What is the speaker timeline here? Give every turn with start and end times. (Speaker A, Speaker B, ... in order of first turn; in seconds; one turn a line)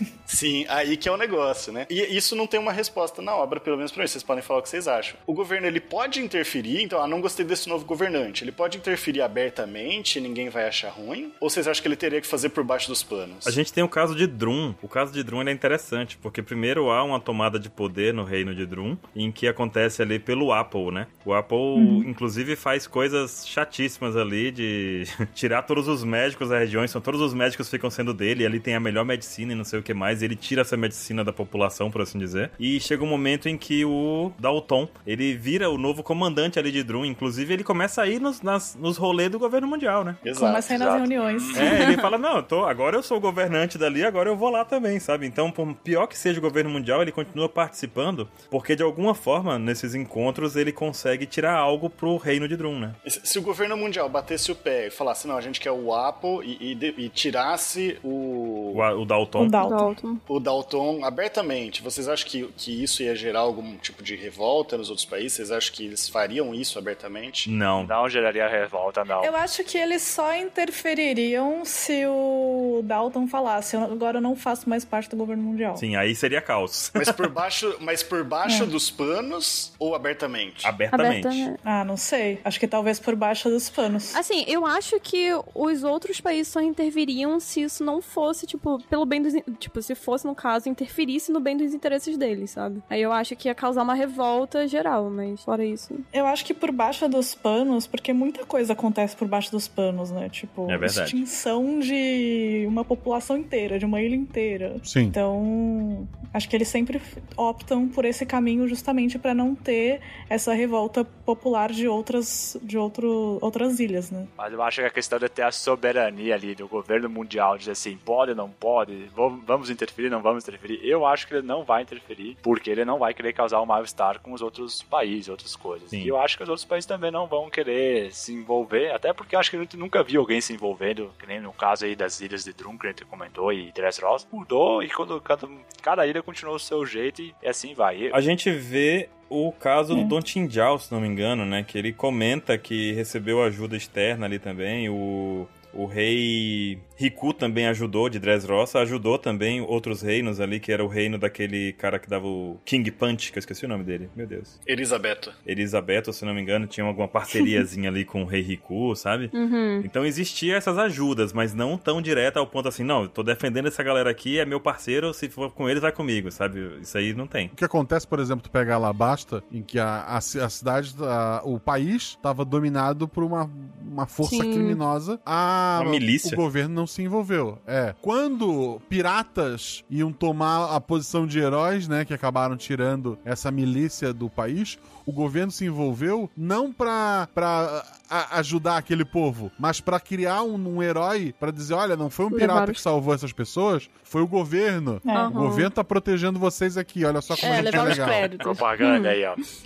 Speaker A: 0.3-13.6
Speaker B: 13.4-40.2
Speaker C: 21.7-22.0
Speaker A: 40.2-41.0
Speaker C: 40.3-42.0
Speaker D: 40.7-41.8
Speaker B: 41.5-53.0
Speaker A: 53.0-58.9
Speaker B: 58.7-59.5
Speaker C: 59.4-59.9
Speaker E: 59.6-60.2
Speaker A: 60.3-67.5
Speaker B: 67.5-67.9
Speaker D: 67.8-69.4
Speaker C: 69.2-75.8
Speaker B: 75.8-77.2
Speaker A: 76.9-80.7
Speaker C: 78.5-78.7
Speaker B: 80.6-81.5
Speaker E: 80.9-81.5
Speaker C: 81.6-84.2
Speaker E: 84.1-96.0
Speaker C: 96.1-114.3
Speaker B: 100.7-101.2
Speaker F: 104.8-105.2
Speaker D: 114.4-138.1
Speaker B: 138.1-154.5
Speaker A: 154.7-155.3
Speaker B: 155.4-167.5
Speaker E: 159.3-159.8
Speaker F: 167.5-198.3
Speaker E: 174.2-174.8
Speaker B: 175.7-176.4
Speaker E: 192.3-192.8
Speaker C: 195.1-195.4
Speaker E: 195.1-195.7
Speaker E: 197.4-199.1
Speaker D: 197.6-199.4